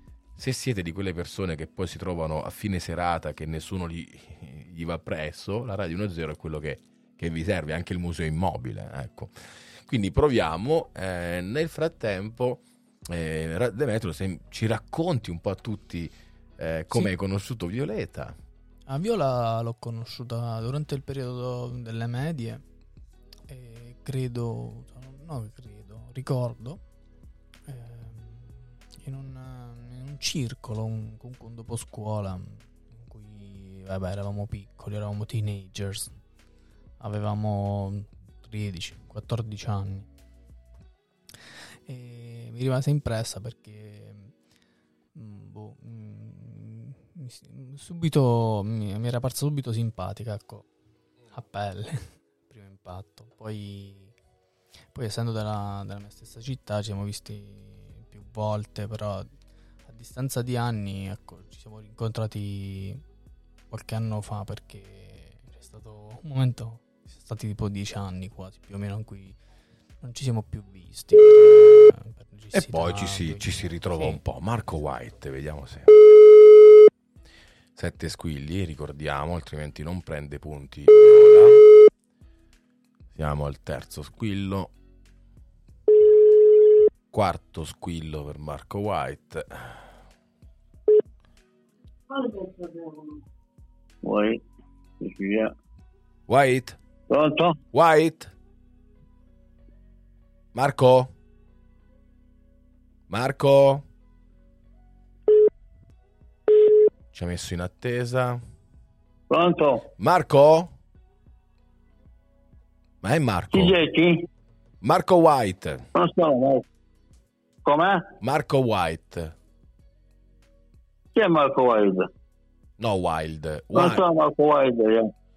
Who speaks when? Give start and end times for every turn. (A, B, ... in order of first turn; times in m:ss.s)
0:00.4-0:18.4 A
0:18.9-0:22.6 B
0:23.5-0:26.8 B
0:27.7-0:36.1 B
0:37.0-0:40.1 B
0:41.9-0:44.3 B
0:45.2-0:50.7 B
0:51.3-0:54.1 B
0:54.9-0:59.3 B
0:59.9-1:03.0 B
1:03.7-1:09.4 B
1:10.0-1:14.2 B
1:12.5-1:15.9 A
1:17.8-1:21.7 A
1:23.1-1:24.7 A
1:27.1-1:29.8 A
1:34.0-1:34.4 C
1:35.0-1:35.5 C
1:36.3-1:36.8 A
1:37.1-1:37.6 C
1:37.7-1:38.3 A
1:40.5-1:41.1 A
1:43.1-1:43.8 A
1:47.1-1:48.4 A
1:49.3-1:49.8 C
1:50.0-1:50.7 A
1:53.0-1:53.8 A
1:53.5-1:54.2 C
1:54.8-1:55.9 A
1:56.0-1:56.6 C
1:57.6-1:58.0 C
1:58.2-1:59.4 A
2:01.2-2:02.1 C
2:02.8-2:04.0 A
2:03.7-2:05.1 C